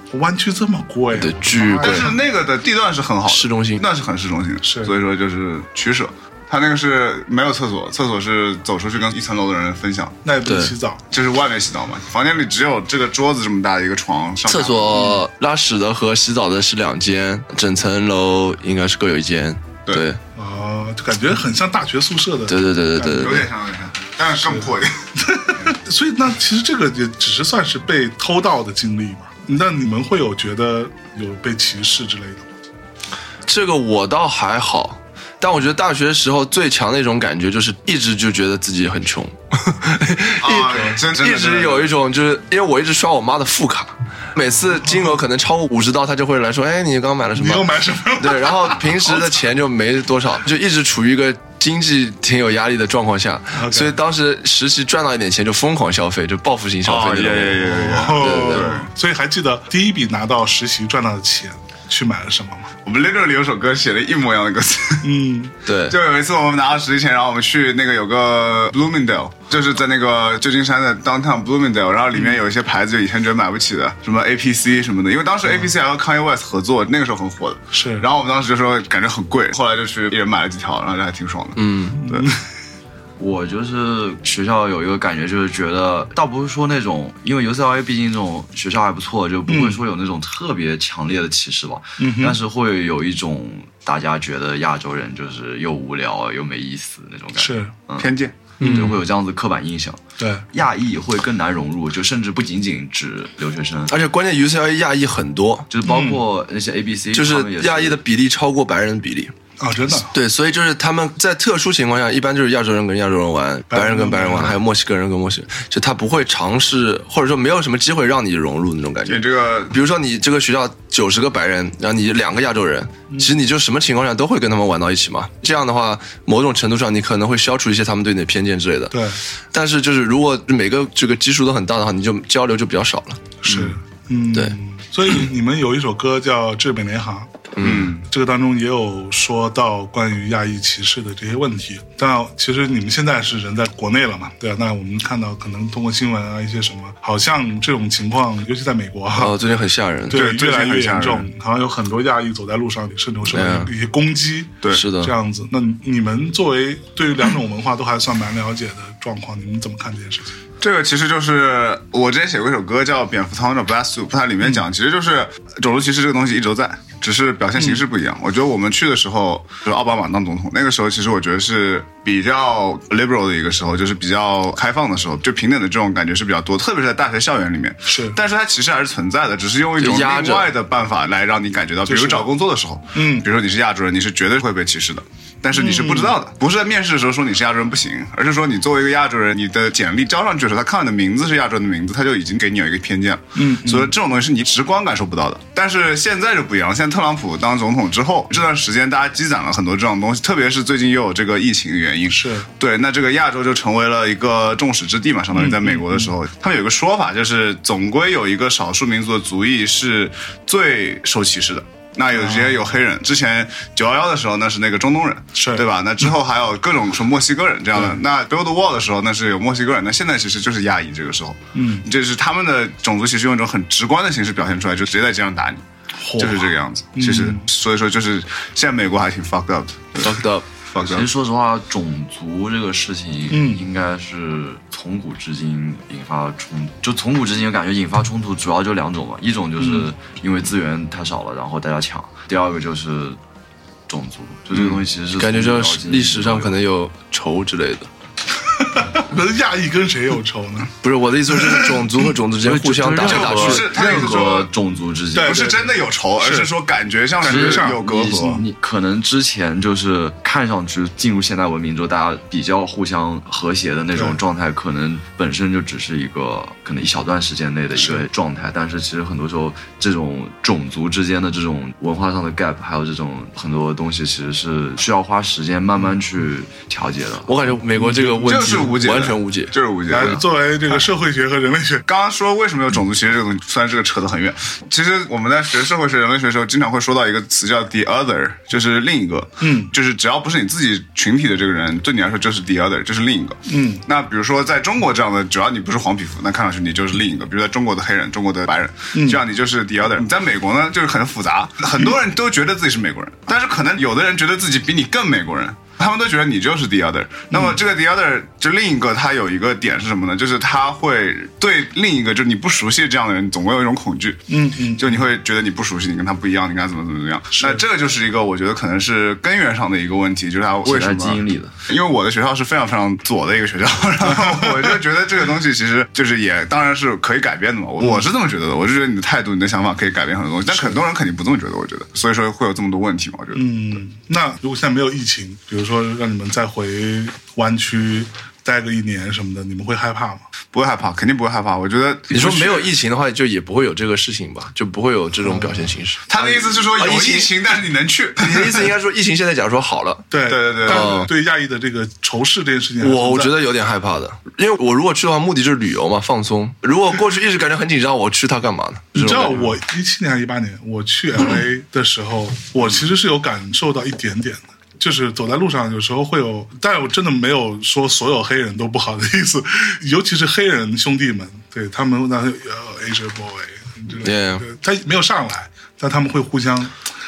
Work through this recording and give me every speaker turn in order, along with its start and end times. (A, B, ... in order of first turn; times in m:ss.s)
0:00.1-0:02.2 A
0:01.1-0:02.1 B
0:01.8-0:10.2 C
0:03.3-0:03.8 B
0:04.6-0:04.9 A
0:10.2-0:11.0 A
0:10.4-0:10.7 B
0:11.1-0:15.1 C
0:14.5-0:20.2 B
0:15.0-0:15.2 A
0:20.4-0:23.5 A
0:22.5-0:23.5 B
0:23.2-0:24.9 C
0:25.2-0:32.4 A
0:33.5-0:58.8 B
0:40.4-0:41.9 C
0:47.4-0:49.4 A
0:53.6-0:54.0 A
0:56.8-0:58.9 C
0:57.6-1:02.7 A
1:02.8-1:05.1 C
1:05.0-1:05.5 A
1:05.6-1:06.0 B
1:05.9-1:22.3 C
1:17.7-1:18.0 A
1:21.6-1:22.0 B
1:22.0-1:22.4 A
1:23.2-1:40.0 D
1:29.5-1:29.8 A
1:32.0-1:32.4 A
1:37.4-1:37.7 A
1:38.0-1:38.3 C
1:38.6-1:39.0 B
1:40.2-1:40.4 A
1:40.5-1:43.9 D
1:43.9-1:45.7 B
1:45.7-1:48.0 D
1:45.8-1:46.2 A
1:47.1-1:49.3 B
1:49.6-1:50.1 A
1:49.9-2:09.0 B
1:53.7-1:54.6 A
1:59.0-1:59.8 C
2:08.9-2:09.2 A
2:09.5-2:13.2 B
2:13.4-2:17.4 A
2:13.4-2:13.8 C
2:17.6-2:17.9 B
2:17.6-2:18.0 C
2:18.0-2:29.4 A
2:29.1-2:30.2 B
2:30.1-2:40.3 A
2:30.1-2:31.3 C
2:33.3-2:33.7 B
2:34.7-2:35.1 B
2:40.6-3:45.6 C
2:57.9-2:58.2 A
2:59.8-3:00.5 B
3:01.9-3:02.3 A
3:02.9-3:03.2 A
3:05.5-3:06.1 A
3:13.4-3:13.9 A
3:22.1-3:22.5 A
3:25.3-3:26.1 A
3:32.1-3:32.6 A
3:35.4-3:35.6 A
3:41.5-3:41.8 A
3:46.0-3:47.4 A
3:46.2-3:51.1 C
3:50.0-3:50.4 B
3:50.8-4:03.2 D
3:53.3-3:53.6 A
3:59.6-3:59.9 A
4:03.9-4:06.6 D
4:04.5-4:04.8 C
4:05.2-4:07.9 B
4:08.7-4:10.7 A
4:10.8-4:14.0 B
4:11.3-4:12.1 A
4:12.4-4:15.7 D
4:13.0-4:14.5 C
4:15.1-4:16.5 A
4:15.2-4:18.4 C
4:17.2-4:18.4 A
4:17.2-4:37.3 D
4:27.8-4:28.0 A
4:37.2-4:39.5 B
4:37.7-4:38.7 A
4:38.2-4:40.2 C
4:39.9-4:41.8 A
4:41.9-5:33.8 C
4:49.4-4:49.7 A
4:53.5-4:53.8 A
4:58.9-4:59.2 A
5:07.3-5:07.6 A
5:14.3-5:15.0 A
5:17.4-5:17.6 A
5:20.6-5:21.5 D
5:24.1-5:24.7 A
5:30.5-5:30.8 A
5:33.3-5:40.2 A
5:40.5-5:42.7 C
5:42.1-5:47.3 B
5:45.2-5:45.7 A
5:46.1-5:48.7 C
5:48.2-5:50.1 B
5:50.1-5:53.3 A
5:50.3-5:51.1 C
5:50.6-5:51.1 B
5:52.8-5:59.5 B
5:58.9-6:16.8 A
6:14.0-6:14.4 B